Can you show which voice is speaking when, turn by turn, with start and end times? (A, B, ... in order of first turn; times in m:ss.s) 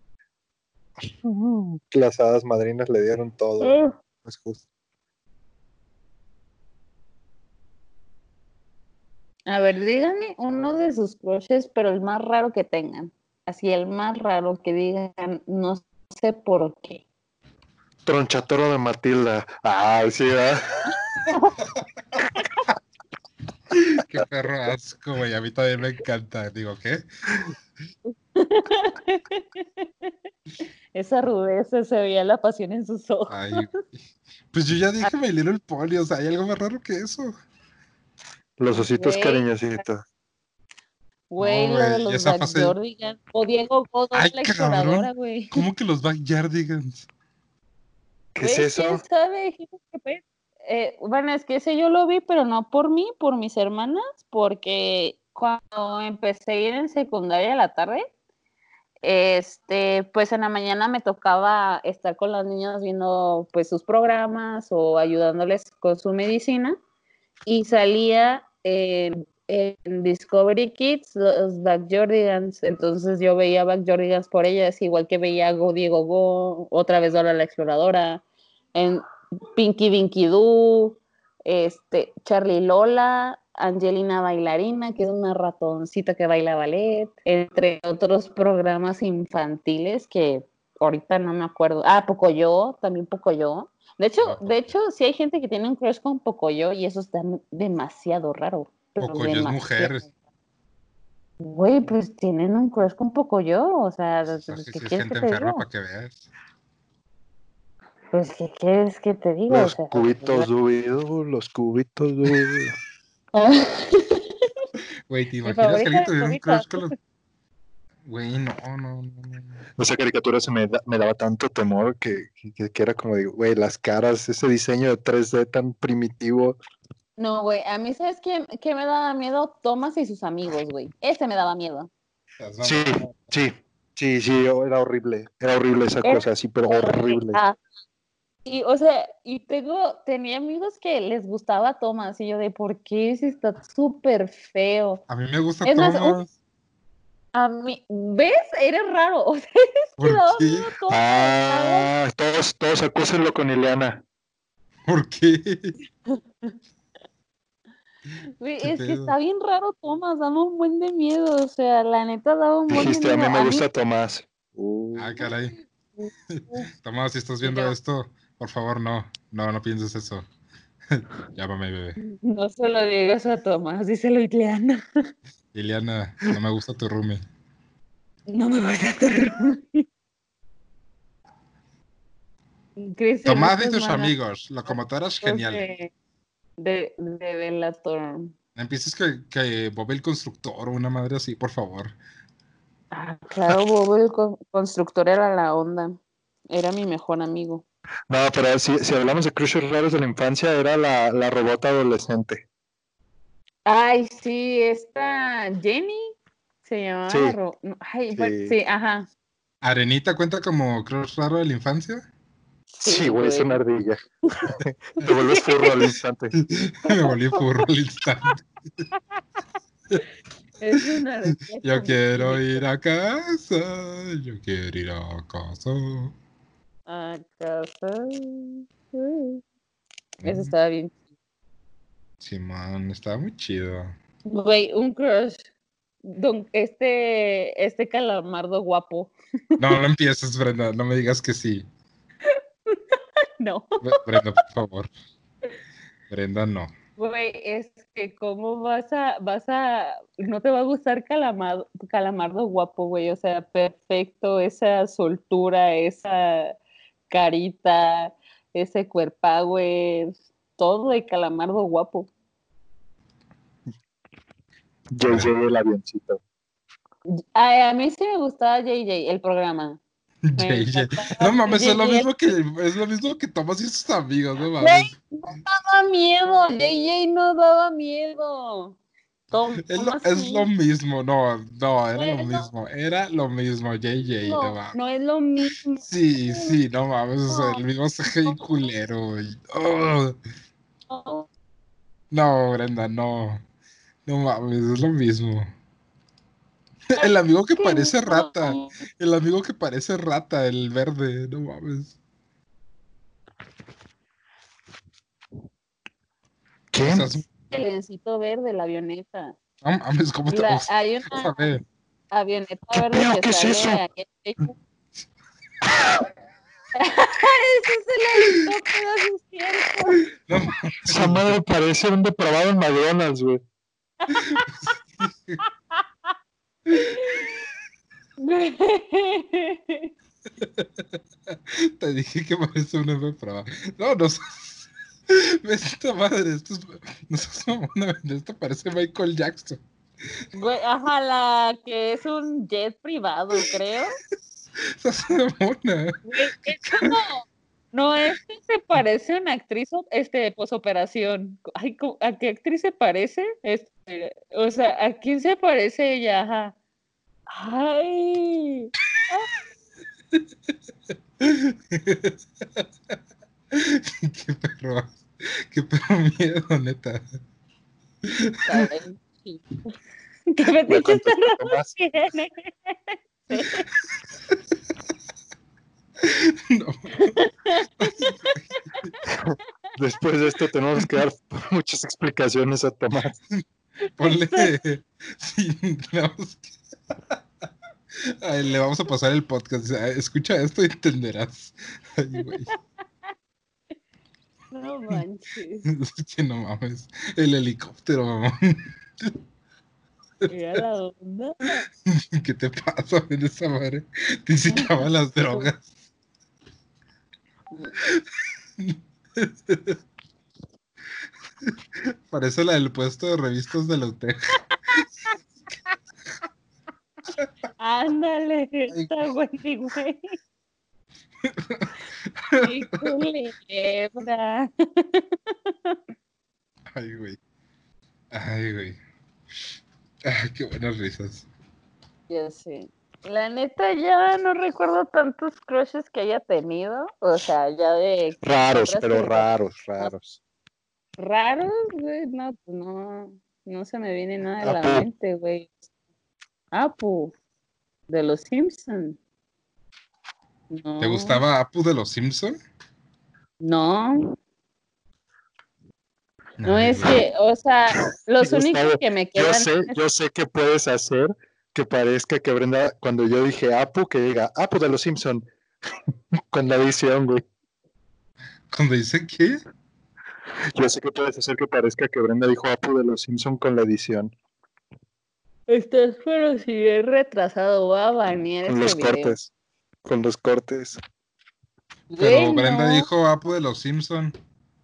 0:01.2-0:04.6 A
0:03.6-0:03.9 B
0:09.5-0:17.0 B
0:18.0-0:20.8 A
0:23.8-0:27.5 C
0:28.1-0:30.1 B
0:30.9-0:33.6 B
0:33.3-0:33.9 C
0:34.5-0:37.3 C
0:38.6-0:40.0 A
0:38.7-0:39.4 B
0:41.3-0:45.6 B
0:41.4-0:42.8 C
0:44.1-0:47.1 C
0:48.3-0:49.0 A
0:48.4-0:58.1 B
0:59.0-1:06.8 B
1:07.4-1:18.2 B
1:18.7-1:19.0 B
1:19.5-1:40.0 B
1:34.2-1:34.6 C
1:39.0-1:40.1 C
1:41.4-1:45.6 B
1:44.5-1:46.2 C
1:48.1-1:50.5 B
1:49.5-1:52.7 A
1:53.3-1:54.3 B
1:55.1-1:56.9 C
1:55.4-1:56.9 B
1:58.0-1:59.6 C
1:59.8-2:06.6 A
2:07.2-2:11.9 B
2:12.4-2:13.1 C
2:12.6-2:17.4 A
2:16.0-2:17.6 B
2:18.4-2:25.0 B
2:25.1-2:26.3 C
2:25.6-2:26.2 B
2:27.3-2:31.9 B
2:30.0-2:30.7 C
2:30.9-2:34.0 A
2:34.9-2:35.7 C
2:36.1-2:36.5 B
2:38.4-2:43.6 B
2:38.6-2:39.1 C
2:42.7-2:45.2 A
2:45.0-2:45.6 C
2:46.0-2:46.7 B
2:46.3-2:50.2 C
2:47.4-2:47.7 B
2:50.9-2:52.0 C
2:52.0-2:54.8 B
2:55.5-2:57.2 C
2:58.3-2:59.8 B
3:02.8-3:04.1 B
3:03.2-3:05.6 C
3:04.6-3:05.9 B
3:06.6-3:08.3 B
3:08.6-3:11.9 C
3:12.9-3:16.0 B
3:16.5-3:17.6 B
3:18.1-3:22.4 A
3:23.6-3:29.1 B
3:27.1-3:27.4 A
3:28.1-3:28.6 A
3:29.6-3:32.1 C
3:32.8-3:34.0 A
3:32.8-3:33.6 B
3:34.5-3:36.4 A
3:35.0-3:35.9 B
3:36.4-3:38.4 C
3:36.9-3:37.4 B
3:40.6-3:42.6 B
3:41.6-3:46.1 C
3:46.9-3:49.4 B
3:50.2-3:50.5 C
3:50.2-3:51.0 B
3:52.2-3:53.9 C
3:54.3-3:55.4 B
3:56.0-3:59.8 B
3:59.6-4:01.6 C
4:02.2-4:04.2 B
4:03.8-4:04.9 C
4:06.1-4:06.7 C
4:07.0-4:16.6 B
4:17.1-4:22.1 B
4:24.9-4:26.2 A
4:25.0-4:25.3 C
4:27.1-4:29.8 B
4:30.2-4:34.9 C
4:30.4-4:32.1 B
4:34.6-4:38.8 B
4:39.3-4:40.5 B
4:39.6-4:44.8 C
4:41.9-4:42.5 B
4:44.2-4:46.6 B
4:45.8-4:50.2 C
4:47.3-4:47.6 B
4:48.2-4:48.6 B
4:50.9-4:51.3 B
4:52.1-4:53.4 C
4:54.0-4:55.5 C
4:56.9-5:01.9 C
4:57.0-4:58.7 B
5:06.7-5:07.2 A
5:06.8-5:07.2 C
5:07.5-5:09.4 B
5:09.6-5:11.6 C
5:10.3-5:11.6 B
5:12.1-5:14.5 B
5:12.7-5:13.8 A
5:16.7-5:20.0 B
5:20.2-5:21.3 C
5:20.9-5:23.4 A
5:24.1-5:24.4 B
5:24.1-5:25.4 C
5:26.7-5:27.0 C
5:26.7-5:27.3 B
5:28.2-5:29.9 B
5:30.4-5:39.6 C
5:40.3-5:44.0 B
5:44.8-5:47.0 C
5:46.1-5:56.5 B
5:57.3-5:59.3 B
6:01.2-6:02.6 C
6:03.5-6:07.0 C
6:08.0-6:08.7 C
6:08.4-6:09.6 B
6:10.3-6:13.7 B
6:10.7-6:11.7 A
6:16.0-6:17.2 C
6:17.0-6:18.3 B
6:17.8-6:18.4 C
6:19.1-6:23.2 A
6:24.0-6:26.6 C
6:24.0-6:24.5 B
6:28.0-6:32.5 C
6:32.2-6:32.5 B
6:34.5-6:35.7 B
6:35.6-6:39.2 C
6:40.2-6:40.6 C
6:40.3-6:41.6 B
6:41.8-6:45.6 C
6:48.6-6:49.8 C
6:51.4-6:54.4 C
6:57.6-7:00.1 B
7:01.2-7:01.7 C
7:02.2-7:03.0 C
7:02.4-7:05.8 B
7:06.7-7:07.2 C
7:08.1-7:08.8 C
7:10.0-7:11.2 C
7:12.1-7:19.9 B
7:18.2-7:20.2 A
7:21.0-7:25.5 B
7:24.4-7:24.9 A
7:26.5-7:27.1 B
7:27.9-7:29.0 B
7:30.5-7:31.2 B
7:30.8-7:32.4 C
7:33.4-7:34.2 B
7:36.4-7:37.0 C
7:36.4-7:39.8 B
7:38.2-7:45.3 A
7:46.3-7:47.2 A
7:48.5-7:49.4 C
7:50.5-7:54.1 A
7:55.5-7:59.2 B
7:58.4-7:59.3 A
7:59.8-8:00.8 A
8:01.9-8:02.9 B
8:02.0-8:04.1 C